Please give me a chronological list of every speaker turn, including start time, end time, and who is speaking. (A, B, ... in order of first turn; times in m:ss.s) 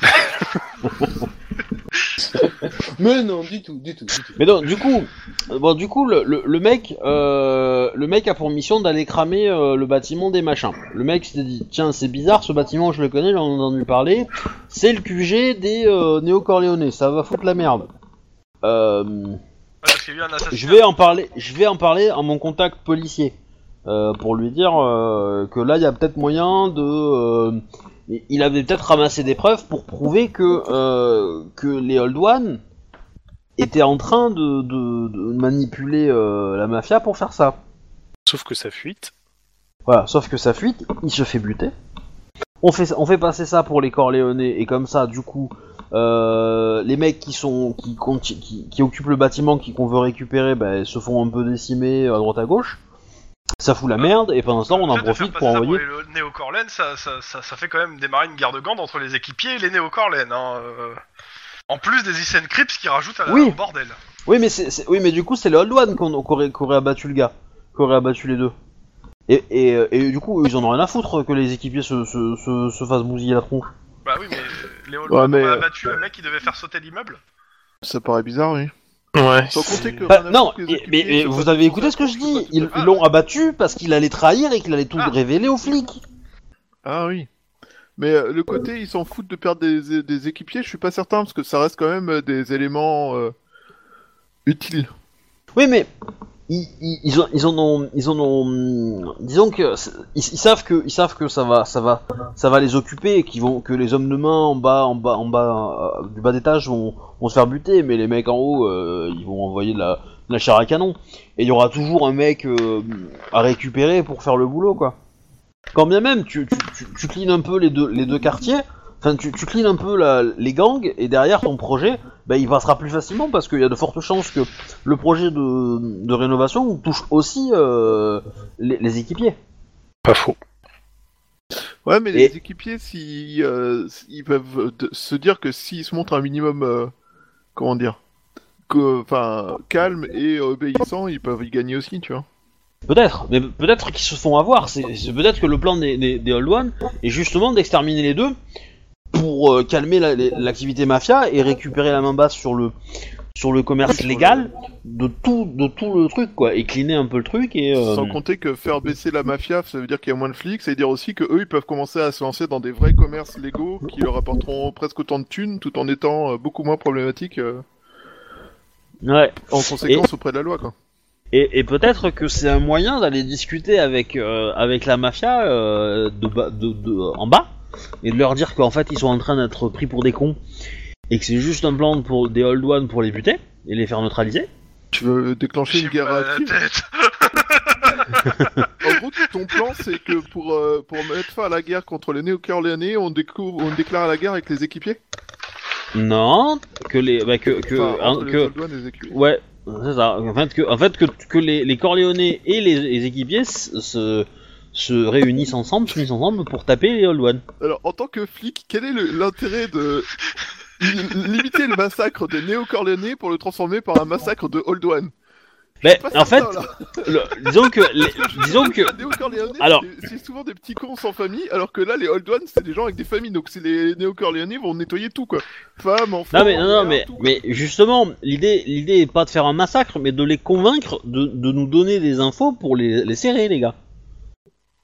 0:02.2-0:04.4 A
0:04.4-0:17.8 B
0:18.6-0:19.4 B
0:19.8-0:21.2 C
0:20.5-0:23.3 B
0:23.8-0:32.6 B
0:33.6-0:37.6 B
0:38.2-0:39.1 D
0:39.8-0:41.7 B
0:42.6-0:52.8 B
0:53.6-0:55.8 B
0:54.7-1:01.0 C
1:01.7-1:04.0 C
1:03.3-1:03.6 B
1:04.3-1:08.5 B
1:09.3-1:13.7 B
1:14.0-1:17.2 C
1:15.1-1:15.7 E
1:17.8-1:18.7 E
1:19.1-1:20.0 D
1:19.5-1:22.7 E
1:20.1-1:26.0 B
1:22.7-1:23.0 C
1:26.8-1:27.3 E
1:28.0-1:33.3 E
1:34.4-1:34.9 E
1:35.6-1:35.9 B
1:36.5-1:55.0 B
1:55.7-2:09.4 B
2:10.0-2:10.4 D
2:11.8-2:16.9 E
2:17.6-2:18.0 E
2:18.7-2:22.2 E
2:22.9-2:28.3 B
2:29.1-2:32.7 B
2:33.3-2:38.2 B
2:33.8-2:34.5 E
2:37.8-2:47.6 E
2:49.0-2:50.1 B
2:49.5-2:50.7 E
2:51.3-2:57.5 B
2:58.0-3:00.4 B
3:01.1-3:04.5 B
3:04.9-3:06.5 E
3:05.7-3:08.7 C
3:08.8-3:15.0 E
3:15.9-3:18.5 B
3:17.7-3:19.2 E
3:19.1-3:27.4 B
3:27.6-3:30.1 E
3:30.8-3:35.1 E
3:35.8-3:39.0 B
3:35.8-3:47.4 E
3:39.6-3:39.8 B
3:46.3-3:53.7 B